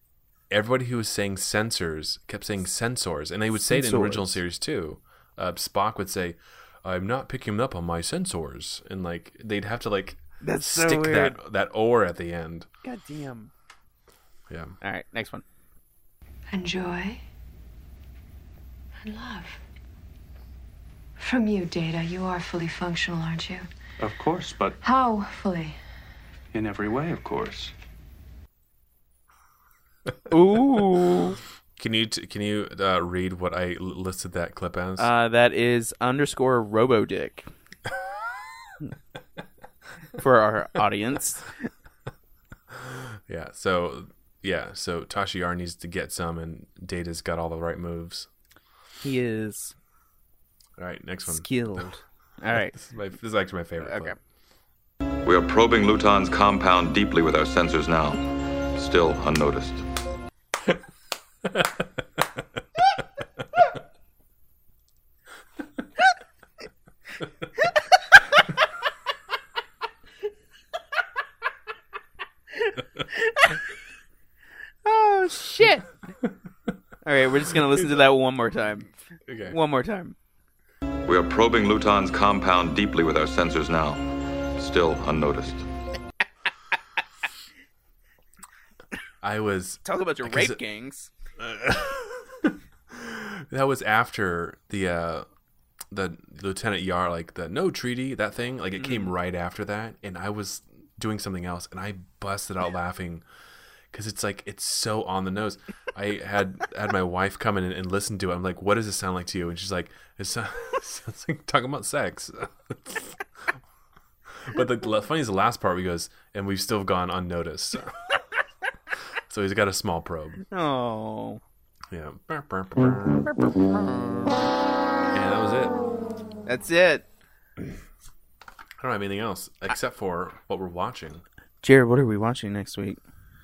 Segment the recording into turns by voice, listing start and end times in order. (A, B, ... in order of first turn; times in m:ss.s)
0:00.5-0:12.7 A
0:03.6-0:04.3 B
0:10.4-0:11.4 B
0:12.8-0:13.5 B
0:14.5-0:14.8 A
0:14.8-0:15.4 B
0:16.5-0:17.2 C
0:19.0-0:19.6 C
0:21.2-0:23.7 C
0:24.0-0:24.8 D
0:24.8-0:25.8 C
0:26.5-0:27.7 D
0:30.3-0:31.4 B
0:31.8-0:35.1 A
0:35.0-0:37.5 B
0:40.2-0:41.5 B
0:42.7-0:48.3 A
0:49.0-0:49.7 B
0:50.8-0:51.8 A
0:51.3-0:52.7 B
0:52.7-0:54.2 A
0:53.8-0:54.2 B
0:55.2-0:59.8 E
1:01.4-1:01.8 A
1:12.6-1:13.6 B
1:14.8-1:15.9 B
1:17.0-1:18.9 B
1:19.3-1:19.6 A
1:19.5-1:20.2 B
1:21.0-1:24.0 E
1:24.6-1:25.6 E
1:29.2-1:30.6 A
1:29.8-1:31.1 B
1:31.4-1:35.2 A
1:35.9-1:43.2 A
1:38.8-1:39.1 B
1:43.9-1:53.2 A
1:54.4-1:58.1 A
1:59.3-2:00.4 A
2:00.5-2:01.4 B
2:01.9-2:03.3 A
2:03.3-2:04.4 B
2:05.1-2:05.7 A
2:06.4-2:07.0 B
2:08.8-2:11.2 A
2:11.6-2:13.0 B